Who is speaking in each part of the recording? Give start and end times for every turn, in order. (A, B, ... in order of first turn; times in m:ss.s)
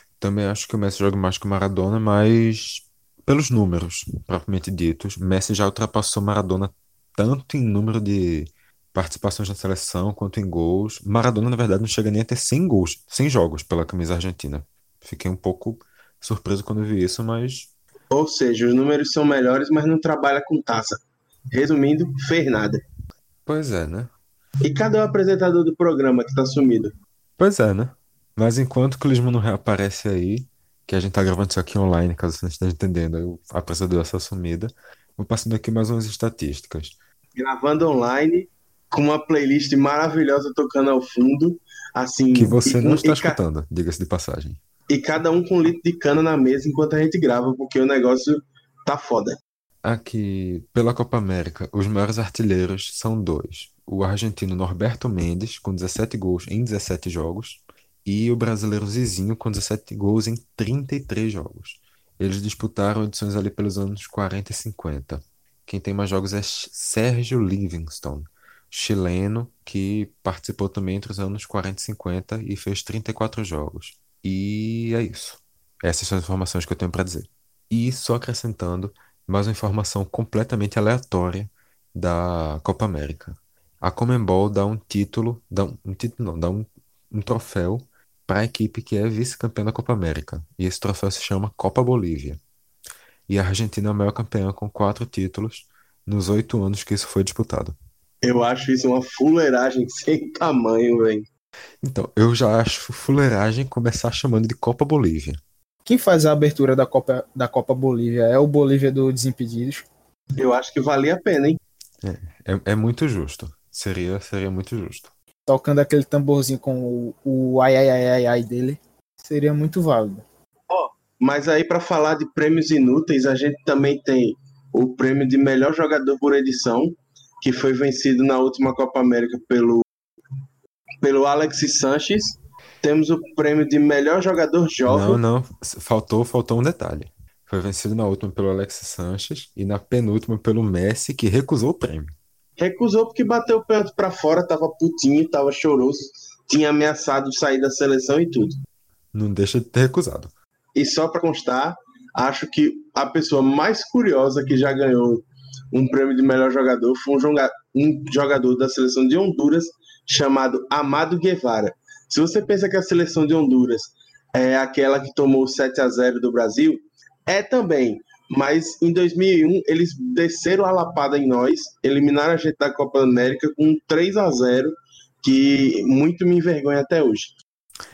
0:00.2-0:17.7 A
0:18.1-0:21.0 B
0:21.5-0:22.8 B
0:23.4-0:24.1 A
0:24.6-0:26.9 B
0:27.4-0:37.0 A
0:37.4-0:43.4 B
0:42.3-0:44.6 A
0:44.9-0:49.4 B
0:49.8-1:32.4 A
1:33.3-1:37.8 A
1:38.2-1:41.3 B
1:41.8-1:45.4 A
1:45.8-1:49.8 C
1:50.4-1:51.6 B
1:52.0-1:55.1 A
1:55.5-2:00.2 C
2:00.7-2:09.8 B
2:11.0-2:15.2 B
2:14.9-2:22.1 A
2:22.6-2:28.5 B
2:29.1-2:30.3 A
2:30.8-2:57.3 B